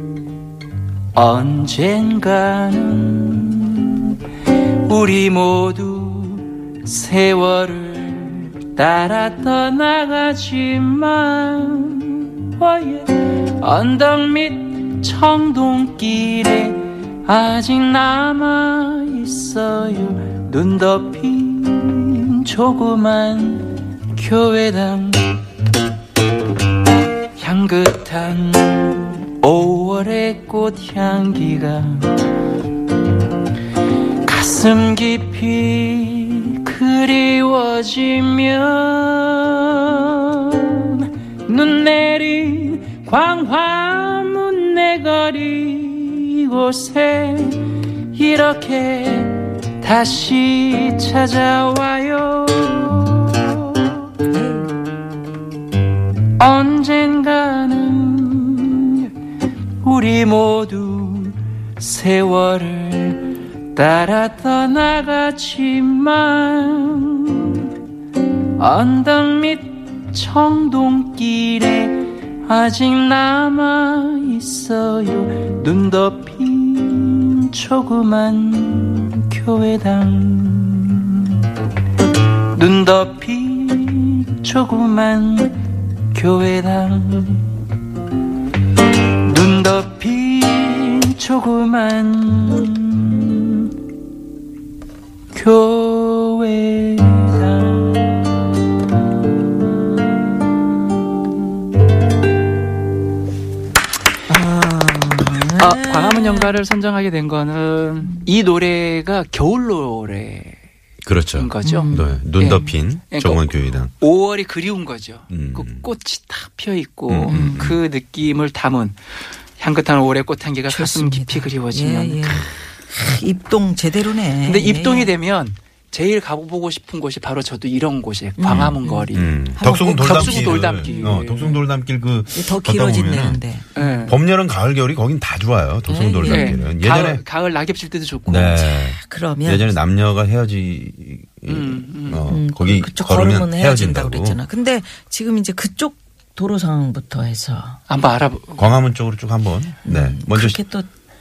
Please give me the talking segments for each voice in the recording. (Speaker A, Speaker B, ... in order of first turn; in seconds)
Speaker A: 1.1-25.4, 27.4-32.3, 34.2-54.0, 56.4-59.1, 59.8-67.7, 68.6-81.5, 82.5-85.6, 86.1-87.6, 89.2-93.7, 95.3-98.2, 105.6-110.6, 111.3-119.0, 119.6-122.5, 124.4-131.6, 133.8-134.2, 136.2-138.7, 141.5-142.2, 147.9-148.7
Speaker B: 54.3-54.7, 104.3-106.6, 111.6-112.7, 117.3-117.8, 120.7-125.1, 128.4-131.1, 132.3-133.8, 135.9-136.7, 138.7-139.7, 142.2-147.8, 149.8-150.9
Speaker C: 111.0-113.9, 115.3-115.9, 117.1-117.8, 128.5-133.4, 134.1-137.2, 138.3-144.4, 148.6-150.6